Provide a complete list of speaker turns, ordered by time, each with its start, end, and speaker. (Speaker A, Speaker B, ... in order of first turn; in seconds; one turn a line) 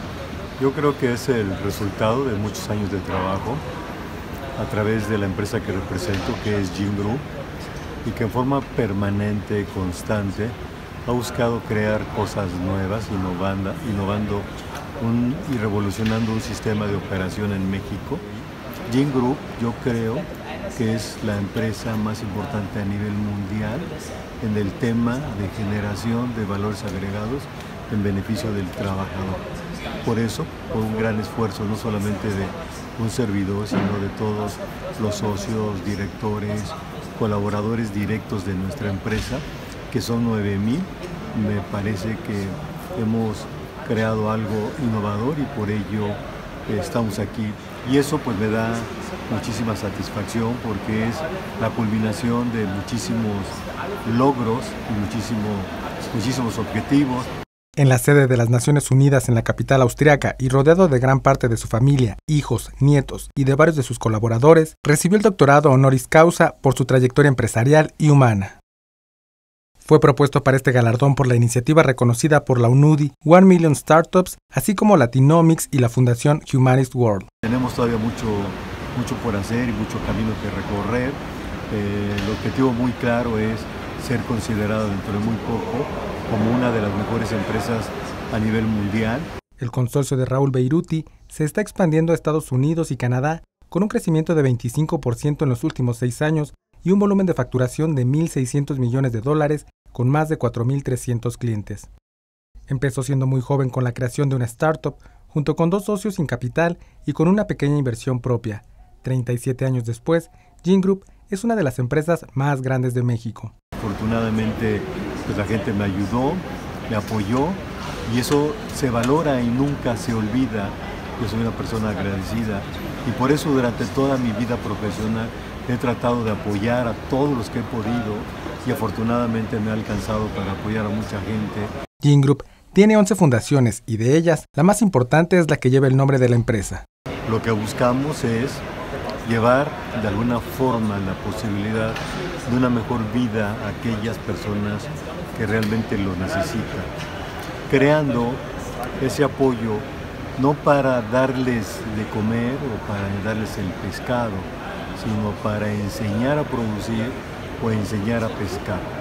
Speaker A: 0.6-3.6
Speaker A: 4.6-7.2
Speaker A: 8.0-14.5
Speaker A: 15.0-18.2
Speaker A: 18.9-29.4
Speaker A: 30.0-57.3
Speaker B: 57.8-68.6
Speaker B: 69.8-77.2
Speaker A: 77.4-89.3
Speaker B: 89.6-101.9
Speaker B: 102.7-113.5
Speaker A: 113.8-131.7
Speaker B: 132.0-136.8
Speaker A: 137.3-138.6
Speaker A: 139.2-146.9
Speaker A: 147.7-148.4
Speaker A: 149.0-158.9